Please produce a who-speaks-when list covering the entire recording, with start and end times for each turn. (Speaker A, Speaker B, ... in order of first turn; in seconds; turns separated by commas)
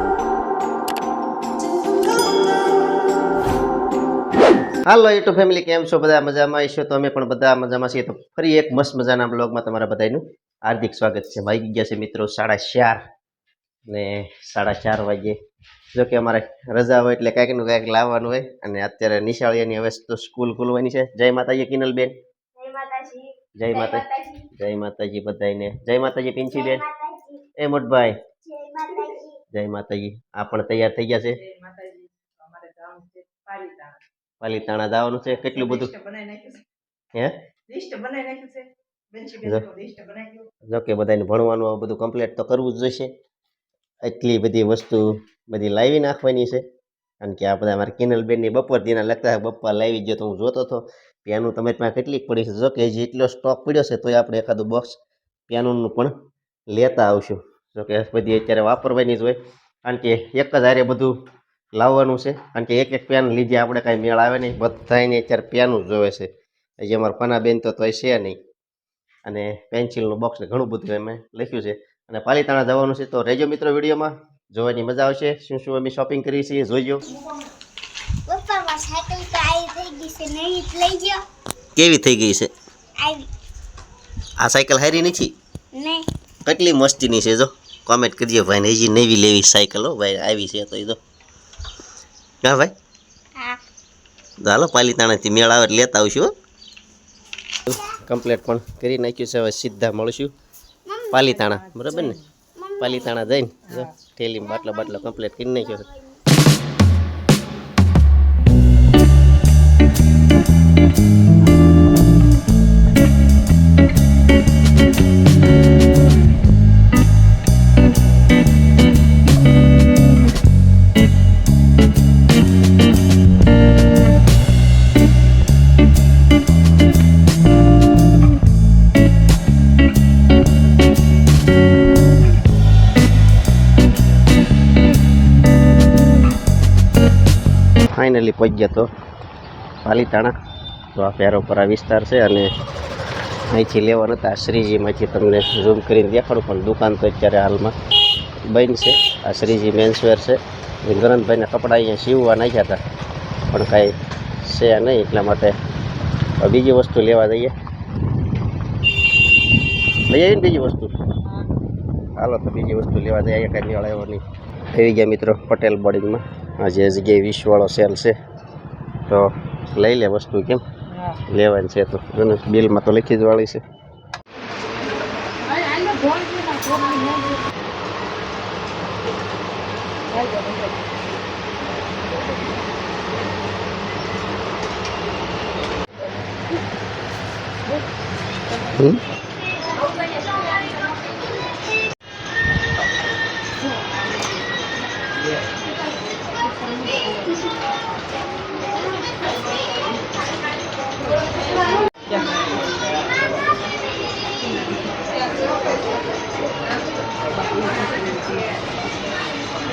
Speaker A: 4.8-13.0, Speaker A: 13.9-15.3, Speaker A: 15.9-22.1, Speaker B: 22.6-24.3, Speaker A: 23.5-26.8, Speaker B: 26.5-27.4, Speaker A: 27.6-28.2, Speaker B: 28.4-29.4, Speaker A: 29.5-31.4, Speaker C: 31.4-34.0, Speaker A: 34.4-35.9, Speaker C: 35.4-36.6, Speaker C: 37.7-40.5, Speaker A: 39.4-39.7, Speaker A: 40.7-43.1, Speaker A: 44.0-46.6, Speaker A: 47.2-55.0, Speaker A: 55.5-56.1, Speaker A: 56.7-61.1, Speaker A: 61.8-66.3, Speaker A: 66.8-68.4, Speaker A: 69.2-77.2, Speaker B: 78.3-81.2, Speaker A: 81.7-82.5, Speaker B: 83.0-83.3, Speaker A: 84.4-85.3, Speaker B: 85.7-86.1, Speaker A: 86.4-91.0, Speaker A: 92.4-92.7, Speaker B: 93.3-93.6, Speaker A: 94.4-96.3, Speaker A: 97.7-100.3, Speaker A: 101.1-102.2, Speaker B: 102.6-102.9, Speaker A: 102.8-105.9, Speaker A: 137.9-138.9, Speaker A: 139.8-140.3, Speaker A: 140.9-142.5, Speaker A: 143.5-147.7, Speaker A: 148.4-152.8, Speaker A: 153.5-155.6, Speaker A: 156.4-157.5, Speaker A: 160.1-160.9, Speaker A: 162.2-164.2, Speaker A: 164.7-168.2, Speaker A: 169.1-170.6, Speaker A: 171.2-173.6, Speaker C: 175.5-177.4, Speaker C: 180.1-180.7, Speaker A: 188.7-189.0, Speaker C: 207.5-208.4